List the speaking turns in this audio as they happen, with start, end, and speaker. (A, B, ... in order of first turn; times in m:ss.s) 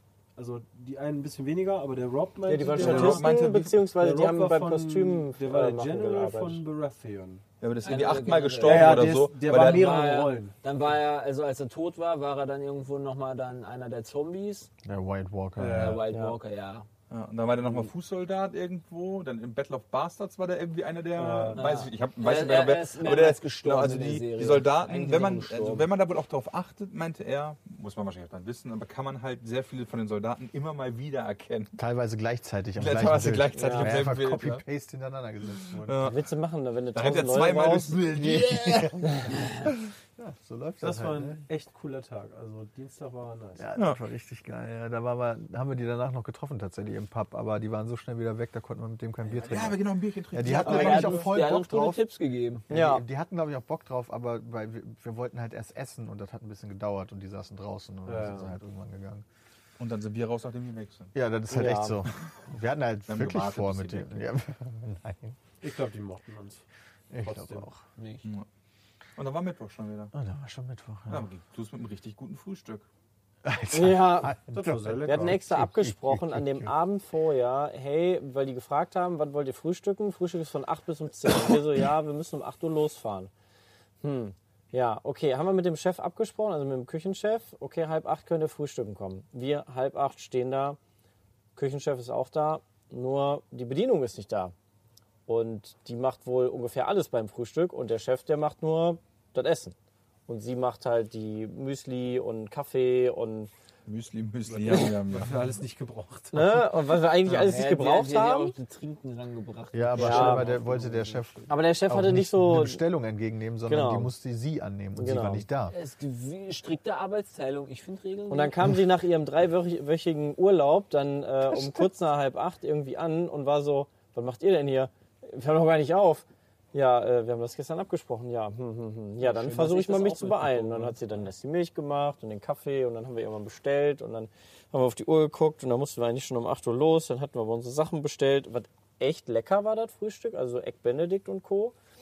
0:00.4-0:03.3 A
0:02.4-0:06.6 B
0:02.7-0:03.9 C
0:03.9-0:07.4 A
0:07.6-0:10.0 C
0:07.8-0:14.7 D
0:08.6-0:10.5 A
0:14.8-0:16.0 E
0:15.6-0:16.0 A
0:15.6-0:16.9 D
0:16.1-0:16.4 B
0:17.1-0:31.7 C
0:21.2-0:21.7 A
0:21.5-0:25.9 D
0:31.8-0:36.1 E
0:32.8-0:34.6 C
0:33.5-0:33.9 B
0:35.8-0:36.2 C
0:36.0-0:38.5 B
0:36.9-0:39.2 C
0:38.3-0:41.4 E
0:40.8-0:43.7 A
0:43.6-0:52.0 E
0:49.4-0:51.3 C
0:50.5-0:52.6 D
0:52.7-0:59.2 E
0:52.7-0:53.0 B
0:58.0-0:58.5 A
0:59.8-1:01.1 C
1:01.1-1:05.4 E
1:01.5-1:02.0 B
1:03.1-1:04.2 C
1:05.6-1:06.6 A
1:07.1-1:07.8 E
1:07.2-1:07.7 A
1:08.0-1:08.2 D
1:09.2-1:10.1 C
1:10.1-1:11.3 E
1:11.1-1:12.9 C
1:13.4-1:16.7 E
1:13.7-1:14.4 B
1:14.5-1:15.4 A
1:15.0-1:23.3 B
1:24.0-1:30.8 B
1:31.6-1:34.5 B
1:35.3-1:39.8 B
1:40.3-1:43.5 B
1:43.8-1:45.6 C
1:44.5-1:46.7 A
1:46.3-1:48.5 B
1:47.2-1:51.3 D
1:49.7-1:55.7 E
1:50.0-1:50.5 B
1:51.5-1:52.8 B
1:53.6-1:54.1 B
1:55.0-1:55.4 B
1:55.7-1:58.5 D
1:58.3-2:21.7 B
2:09.2-2:11.2 D